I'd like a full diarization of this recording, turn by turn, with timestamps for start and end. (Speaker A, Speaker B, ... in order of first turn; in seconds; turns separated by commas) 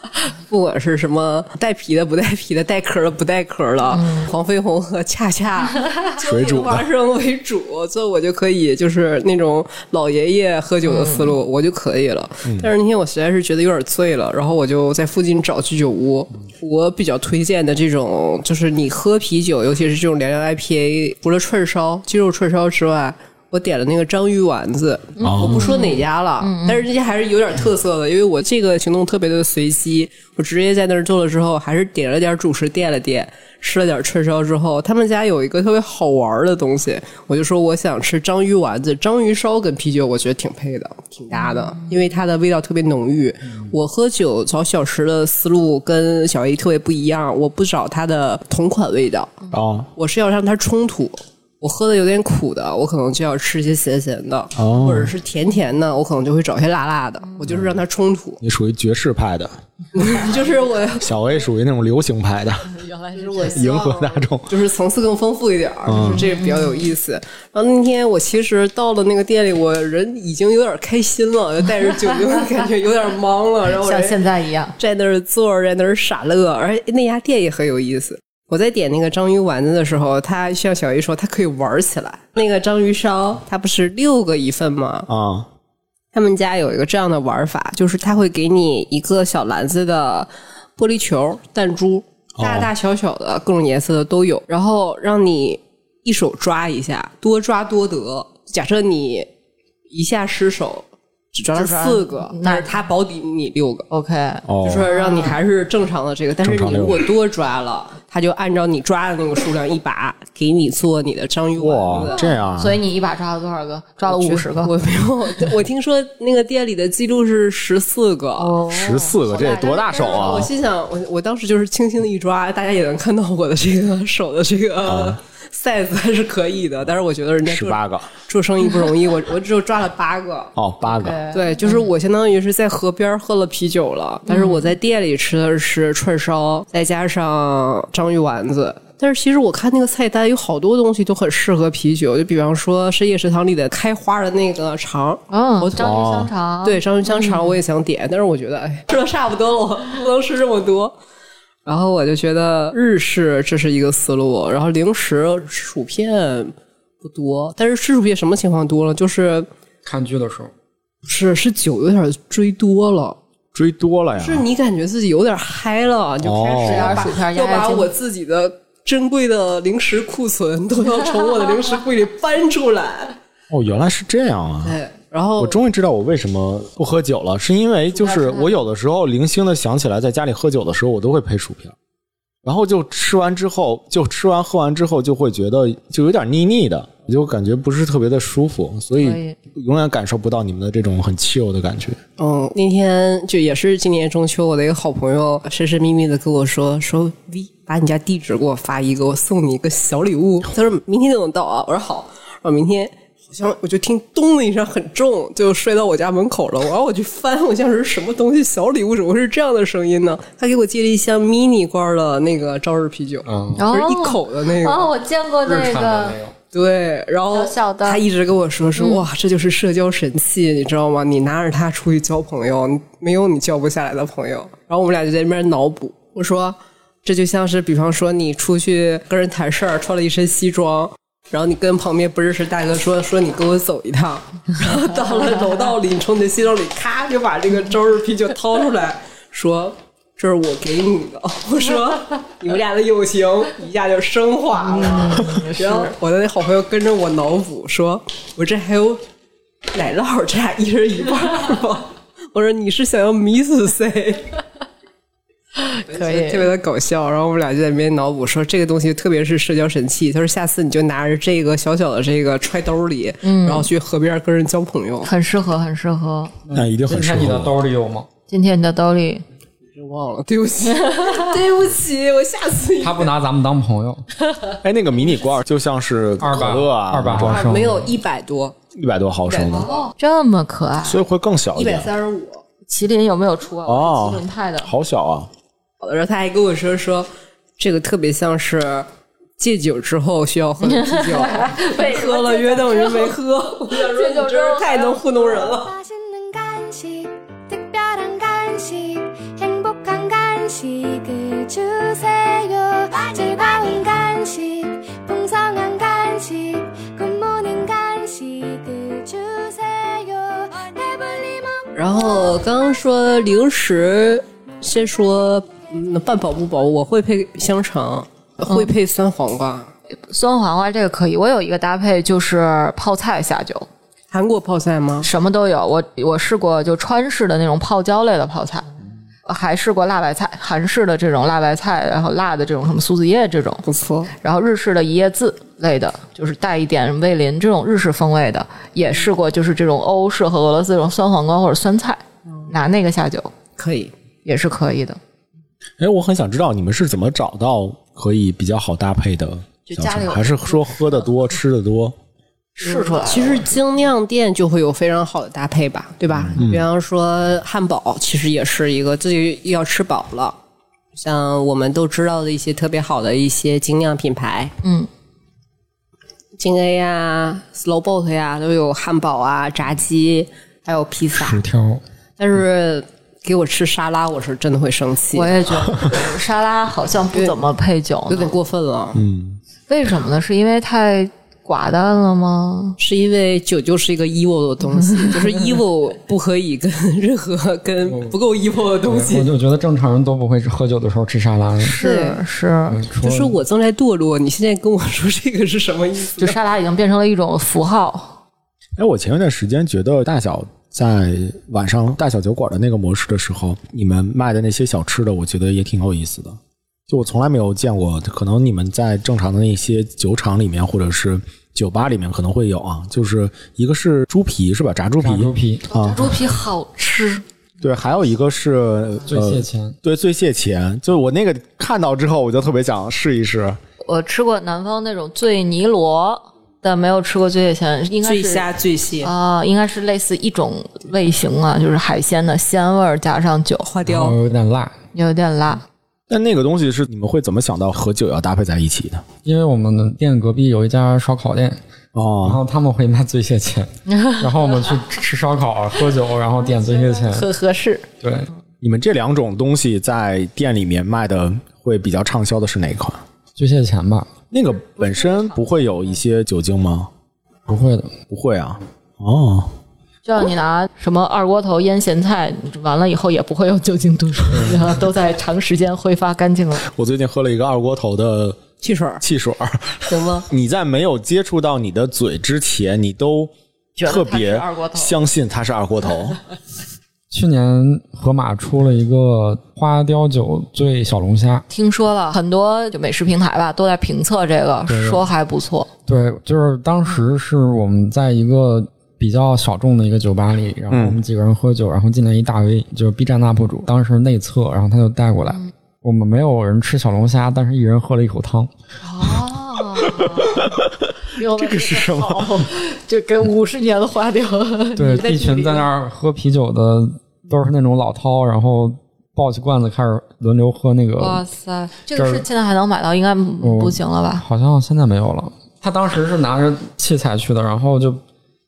Speaker A: 0.2-49.4, Speaker B: 3.9-4.3, Speaker C: 6.2-6.9, Speaker B: 10.9-11.3, Speaker C: 25.2-25.7, Speaker B: 25.2-26.9, Speaker C: 49.5-49.9, Speaker A: 50.0-58.4, Speaker C: 54.6-55.1, Speaker C: 57.5-57.8, Speaker C: 58.4-59.5, Speaker A: 60.0-61.1, Speaker C: 61.0-62.7, Speaker B: 62.7-63.7, Speaker A: 63.1-74.2, Speaker C: 63.5-64.5, Speaker C: 65.9-66.3, Speaker B: 66.2-66.9, Speaker B: 73.7-74.8, Speaker A: 74.8-85.1, Speaker C: 85.1-85.5, Speaker A: 86.1-99.3, Speaker C: 92.4-92.7, Speaker A: 99.9-103.9, Speaker B: 101.5-102.7, Speaker B: 103.9-105.4, Speaker C: 104.5-104.9, Speaker A: 104.6-112.2, Speaker C: 106.4-107.1, Speaker C: 111.6-112.8, Speaker B: 112.0-114.7, Speaker A: 114.1-118.6, Speaker B: 118.4-120.5, Speaker C: 118.7-120.5, Speaker A: 119.9-130.5, Speaker C: 124.8-125.2, Speaker C: 127.5-128.1, Speaker C: 130.6-131.2, Speaker B: 130.9-131.9, Speaker A: 131.3-145.9, Speaker B: 134.3-134.7, Speaker B: 145.3-147.6, Speaker C: 145.8-146.3, Speaker A: 146.6-150.9, Speaker A: 151.7-159.5, Speaker D: 159.8-160.5, Speaker A: 161.1-163.2, Speaker C: 163.5-164.5, Speaker A: 164.2-173.2, Speaker C: 166.2-167.0, Speaker B: 166.6-167.9, Speaker C: 173.5-174.8, Speaker A: 174.7-175.6, Speaker C: 175.4-181.8, Speaker B: 177.9-178.6, Speaker C: 182.4-192.0, Speaker B: 189.0-189.4, Speaker A: 192.2-214.9, Speaker D: 213.2-213.6, Speaker B: 213.6-216.2, Speaker D: 215.5-216.3, Speaker A: 216.5-249.0, Speaker B: 217.3-218.0, Speaker B: 218.8-219.0, Speaker B: 244.6-245.9, Speaker A: 249.7-254.3, Speaker B: 255.6-256.5, Speaker A: 255.9-265.1, Speaker B: 263.2-263.7, Speaker B: 265.0-266.3, Speaker D: 266.5-268.1, Speaker C: 266.5-267.6, Speaker B: 268.3-269.2, Speaker A: 269.8-273.1, Speaker B: 270.8-271.3, Speaker D: 272.8-274.1, Speaker C: 274.6-277.4, Speaker D: 276.2-277.9, Speaker A: 277.1-278.6, Speaker C: 278.8-279.7, Speaker A: 279.3-279.9, Speaker B: 279.4-281.0, Speaker C: 280.8-281.9, Speaker A: 281.6-282.4, Speaker B: 282.7-284.7, Speaker C: 283.7-285.3, Speaker A: 285.8-295.7, Speaker B: 290.6-293.1, Speaker B: 293.7-295.0, Speaker E: 295.1-311.7, Speaker A: 311.8-319.7, Speaker B: 320.1-323.7, Speaker A: 324.1-325.1, Speaker B: 325.0-328.7, Speaker B: 329.3-333.6, Speaker A: 333.7-334.1, Speaker B: 334.2-343.3, Speaker A: 343.6-343.9, Speaker B: 344.2-345.0, Speaker C: 345.8-352.0, Speaker B: 349.7-351.1, Speaker B: 352.6-353.5, Speaker A: 352.6-360.4, Speaker C: 356.3-356.7, Speaker A: 361.0-364.5, Speaker B: 364.6-364.9, Speaker A: 366.4-371.4, Speaker D: 371.2-371.8, Speaker A: 372.2-375.4, Speaker B: 375.1-378.3, Speaker A: 378.1-379.0, Speaker C: 378.9-379.4, Speaker B: 379.7-382.8, Speaker A: 382.8-389.3, Speaker D: 387.9-388.2, Speaker D: 388.9-391.8, Speaker B: 391.6-392.8, Speaker A: 391.8-392.2, Speaker D: 392.7-393.4, Speaker A: 393.0-396.4, Speaker B: 396.2-398.2, Speaker C: 398.8-416.1, Speaker D: 415.0-415.6, Speaker B: 415.7-417.2, Speaker C: 417.6-423.6, Speaker D: 419.1-419.8, Speaker B: 423.8-428.5, Speaker A: 428.0-429.1, Speaker B: 429.0-433.7, Speaker A: 433.6-434.2, Speaker D: 433.9-434.8, Speaker B: 434.9-435.6, Speaker C: 436.1-439.1, Speaker D: 439.2-441.6, Speaker C: 441.9-442.4, Speaker D: 442.2-447.3, Speaker B: 443.9-444.3, Speaker B: 446.9-447.9, Speaker D: 448.0-448.3, Speaker C: 448.6-453.0, Speaker D: 453.4-454.1, Speaker C: 454.3-456.9, Speaker B: 454.7-455.6, Speaker D: 457.5-457.9, Speaker C: 458.1-459.5, Speaker B: 460.1-466.6, Speaker C: 466.7-468.4, Speaker A: 468.6-469.0, Speaker C: 469.0-473.3, Speaker A: 469.9-470.3, Speaker B: 473.8-475.0, Speaker C: 473.8-476.2, Speaker D: 477.1-481.4, Speaker B: 481.5-485.7, Speaker D: 484.7-485.0, Speaker D: 485.9-498.5, Speaker C: 490.7-491.0, Speaker B: 498.8-500.5, Speaker C: 499.8-502.5, Speaker B: 501.1-505.7, Speaker D: 504.8-511.2, Speaker B: 511.0-514.2, Speaker D: 512.0-512.2, Speaker D: 513.4-518.0